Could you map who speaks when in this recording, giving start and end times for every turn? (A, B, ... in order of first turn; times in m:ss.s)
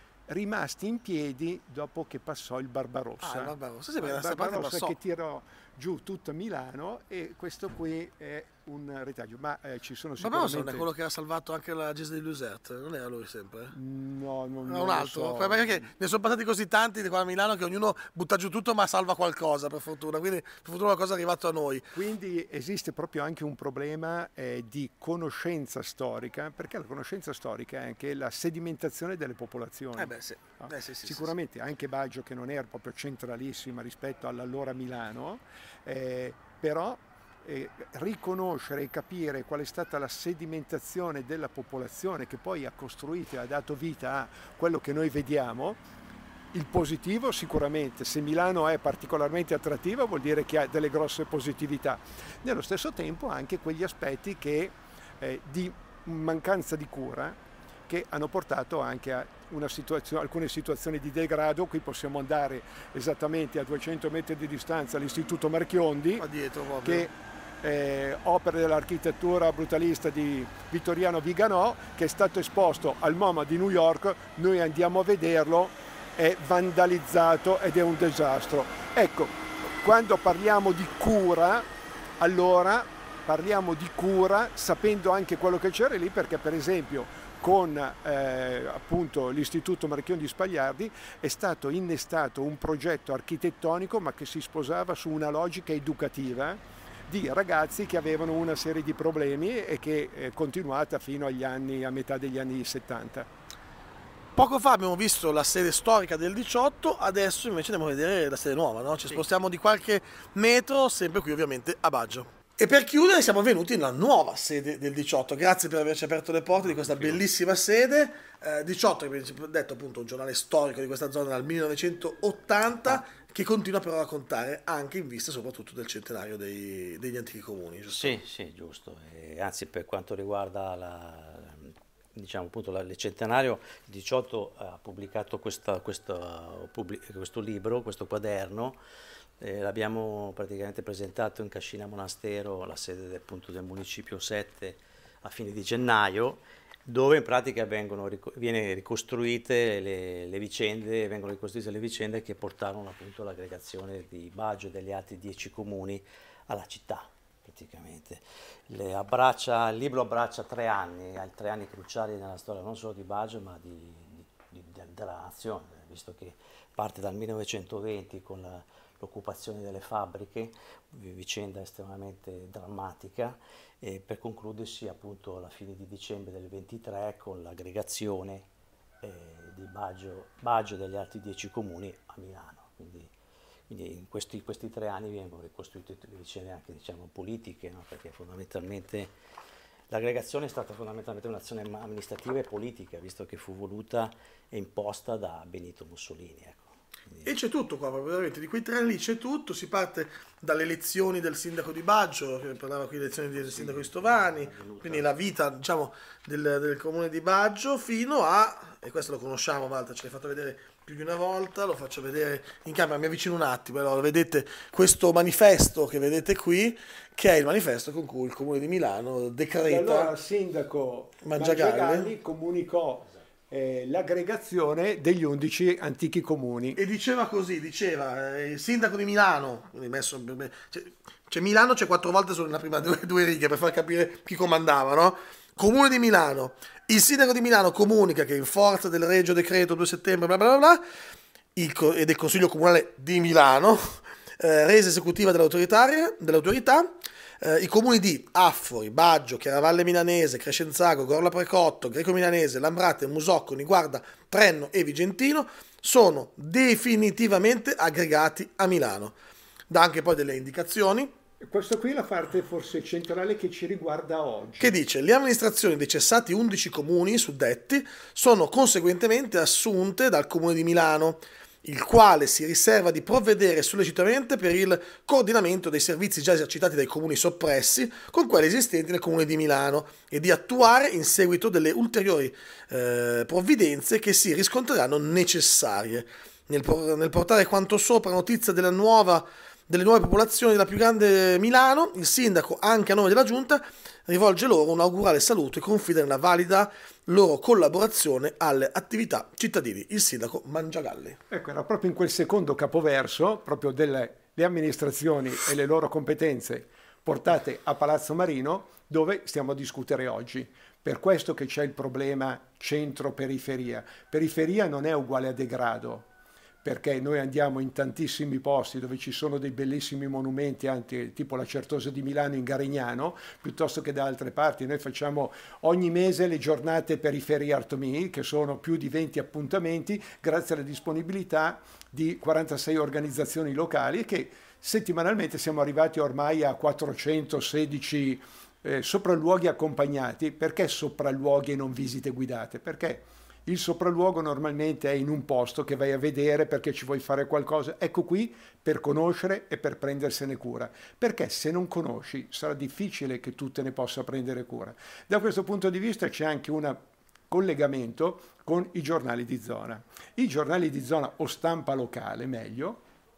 0:00.3-0:10.9 A
0:03.2-0:04.9 B
0:10.2-0:13.8 B
0:13.7-0:15.9 A
0:14.6-0:21.9 B
0:21.9-0:45.8 A
0:30.0-0:31.3 B
0:46.5-1:06.2 A
1:06.2-1:07.1 B
1:06.8-1:21.7 A
1:22.2-1:43.3 A
1:44.4-2:08.2 B
1:56.9-1:57.2 C
2:07.9-2:18.8 C
2:19.4-2:58.5 C
2:59.0-3:03.1 C
3:03.7-3:09.1 C
3:09.9-3:17.3 C
3:17.2-3:40.1 B
3:23.4-3:25.1 C
3:39.7-3:46.8 A
3:41.2-3:42.1 B
3:46.8-4:00.8 B
4:01.6-4:19.2 B
4:19.7-4:21.1 B
4:21.4-4:24.7 A
4:24.6-5:01.2 B
5:01.3-5:16.1 A
5:16.6-6:02.8 A